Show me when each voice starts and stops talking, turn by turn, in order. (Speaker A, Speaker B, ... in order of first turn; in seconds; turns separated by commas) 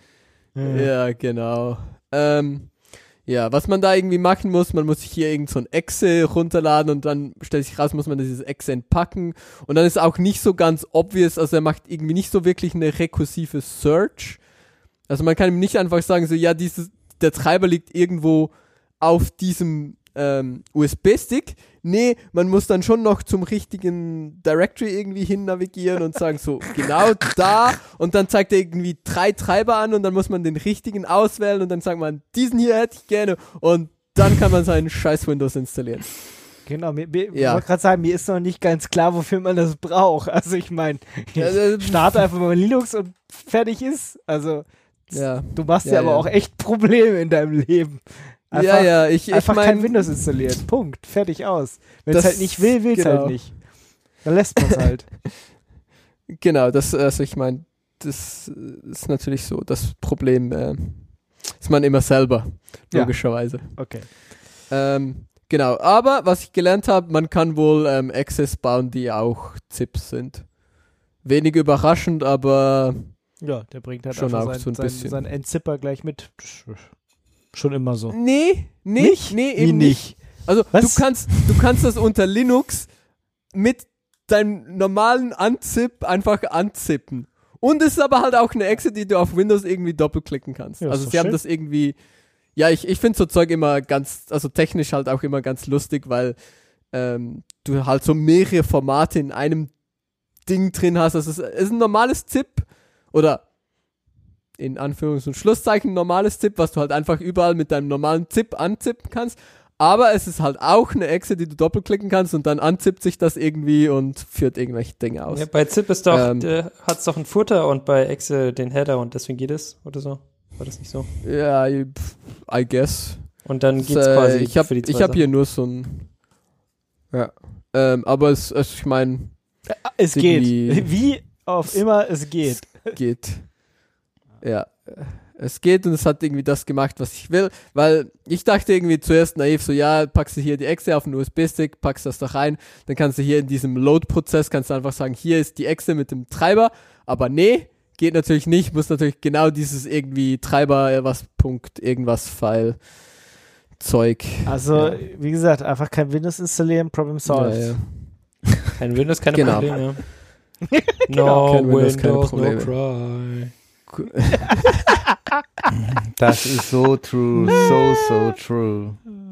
Speaker A: 0.5-0.9, Speaker B: 0.6-14.5, Speaker B: 15.1-36.5, Speaker A: 36.6-55.3, Speaker B: 37.3-37.6, Speaker B: 41.4-42.3, Speaker B: 45.1-46.3, Speaker B: 48.5-50.5, Speaker B: 52.1-53.8, Speaker B: 56.3-73.4, Speaker A: 62.9-64.1, Speaker A: 73.4-81.5, Speaker B: 74.1-75.3, Speaker B: 78.1-104.0, Speaker A: 90.8-91.4, Speaker B: 104.5-116.5, Speaker C: 115.3-121.1, Speaker B: 121.2-126.2, Speaker C: 123.4-125.3, Speaker B: 127.1-155.0, Speaker A: 129.7-132.9, Speaker A: 154.4-158.3, Speaker B: 157.2-158.4, Speaker C: 158.8-163.9, Speaker B: 159.3-160.1, Speaker B: 161.2-162.7, Speaker B: 163.9-164.6, Speaker D: 166.1-169.1, Speaker A: 167.3-167.7